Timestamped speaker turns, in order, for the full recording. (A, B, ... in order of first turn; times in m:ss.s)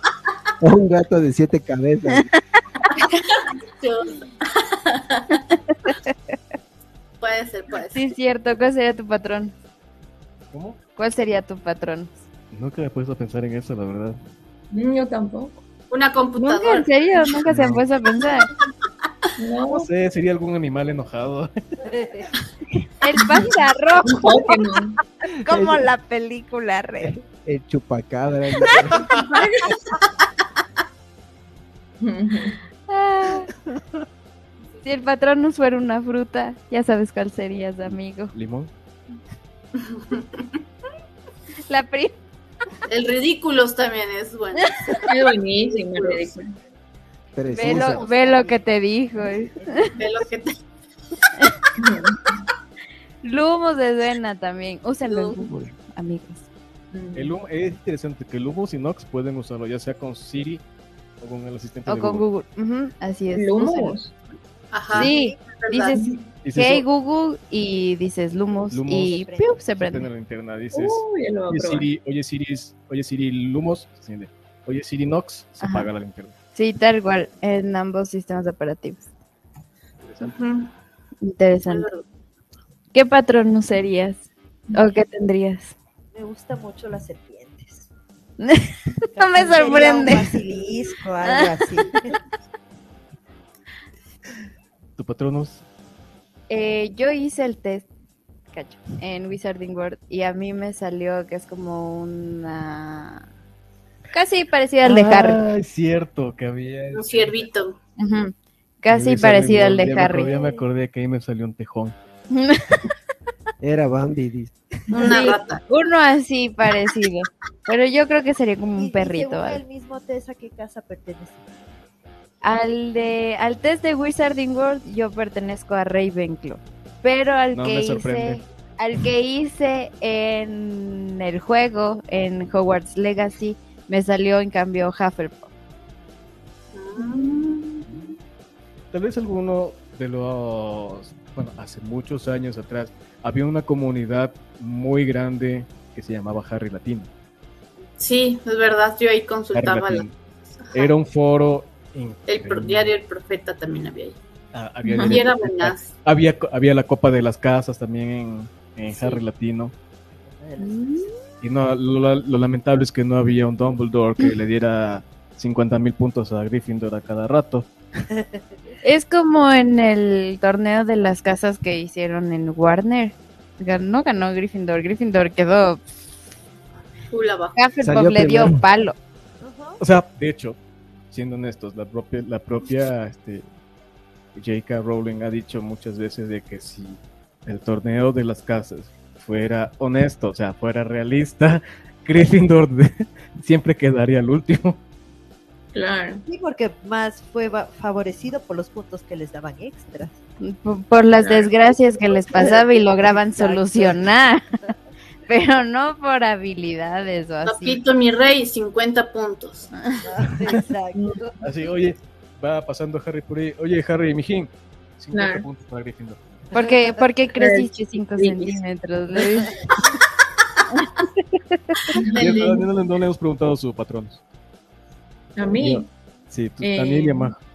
0:00.6-0:02.3 A
0:03.0-0:05.4 B
0:05.9-0:06.1 C
0:07.2-0:08.1 B
0:07.9-0:09.5 C
0:10.5-0:10.8 D
0:11.0-0:12.2 C
0:12.5-0:14.2 D
0:14.7-0:15.6 E
0:15.9-0:16.9 B
0:16.4-0:18.5 C
0:17.4-0:17.8 D
0:19.4-0:19.9 E
0:19.7-0:21.8 D
0:23.0-0:24.6 C
0:24.0-0:25.0 E
0:25.2-0:27.1 C
0:25.4-0:25.9 A
0:27.0-0:29.2 A
0:29.2-0:29.8 E
0:32.0-0:32.6 E
0:32.9-0:33.5 C
0:34.8-0:38.3 C
0:38.3-0:38.7 D
0:39.8-0:40.4 B
0:41.7-0:42.2 C
0:42.9-0:45.0 B
0:45.0-0:46.6 E
0:46.0-0:46.2 B
0:47.3-0:48.0 A
0:47.5-0:49.9 C
0:47.7-0:48.6 F
0:50.0-0:50.6 B
0:51.8-0:52.2 E
0:53.2-0:56.4 C
0:55.1-0:55.4 B
0:56.9-0:57.3 E
0:57.1-1:00.6 D
1:01.2-1:02.2 D
1:01.9-1:04.0 C
1:03.3-1:04.1 E
1:04.7-1:06.0 B
1:04.9-1:10.1 C
1:06.4-1:06.8 D
1:08.7-1:16.3 D
1:09.0-1:09.6 F
1:10.7-1:11.9 E
1:15.6-1:15.9 C
1:16.6-1:19.1 C
1:20.0-1:20.3 D
1:20.2-1:20.7 B
1:21.2-1:21.9 C
1:21.7-1:22.0 B
1:22.9-1:25.7 C
1:26.1-1:27.9 F
1:28.4-1:30.4 C
1:29.1-1:32.1 F
1:35.0-1:35.6 D
1:36.5-1:37.9 C
1:38.5-1:43.2 C
1:44.1-1:45.4 C
1:44.8-1:47.4 D
1:46.9-1:47.8 B
1:48.0-1:50.3 C
1:48.9-1:51.9 D
1:50.1-1:50.6 F
1:52.3-1:52.8 C
1:53.6-1:54.5 A
1:54.9-1:55.6 B
1:55.0-1:59.6 C
1:58.8-2:01.5 F
2:02.4-2:15.5 C
2:07.5-2:08.4 D
2:16.7-2:17.9 B
2:18.9-2:27.1 D
2:28.0-2:30.1 B
2:29.5-2:30.1 D
2:30.6-2:30.9 B
2:30.7-2:32.9 D
2:32.3-2:34.2 B
2:34.5-2:39.7 D
2:34.8-2:35.2 E
2:35.0-2:35.9 B
2:40.1-2:41.1 F
2:40.6-2:41.1 C
2:41.4-2:47.7 D
2:48.1-2:48.4 F
2:48.8-2:55.8 C
2:57.1-2:57.6 B
2:57.6-2:59.0 C
2:57.8-2:58.6 A
2:59.4-2:59.8 F
2:59.8-3:00.6 D
3:01.1-3:03.4 D
3:04.3-3:14.8 D
3:15.7-3:16.2 E
3:16.2-3:20.2 F
3:20.4-3:24.4 C
3:21.2-3:21.5 E
3:22.4-3:24.0 F
3:25.3-3:27.8 C
3:27.4-3:29.7 B
3:30.0-3:31.3 F
3:31.4-3:36.2 D
3:35.1-3:35.5 E
3:36.5-3:39.6 C
3:37.4-3:38.6 E
3:39.1-3:39.5 E
3:40.7-3:42.0 C
3:42.1-3:42.6 B
3:42.2-3:44.2 D
3:45.4-3:45.9 E
3:45.6-3:47.4 D
3:46.6-3:47.3 E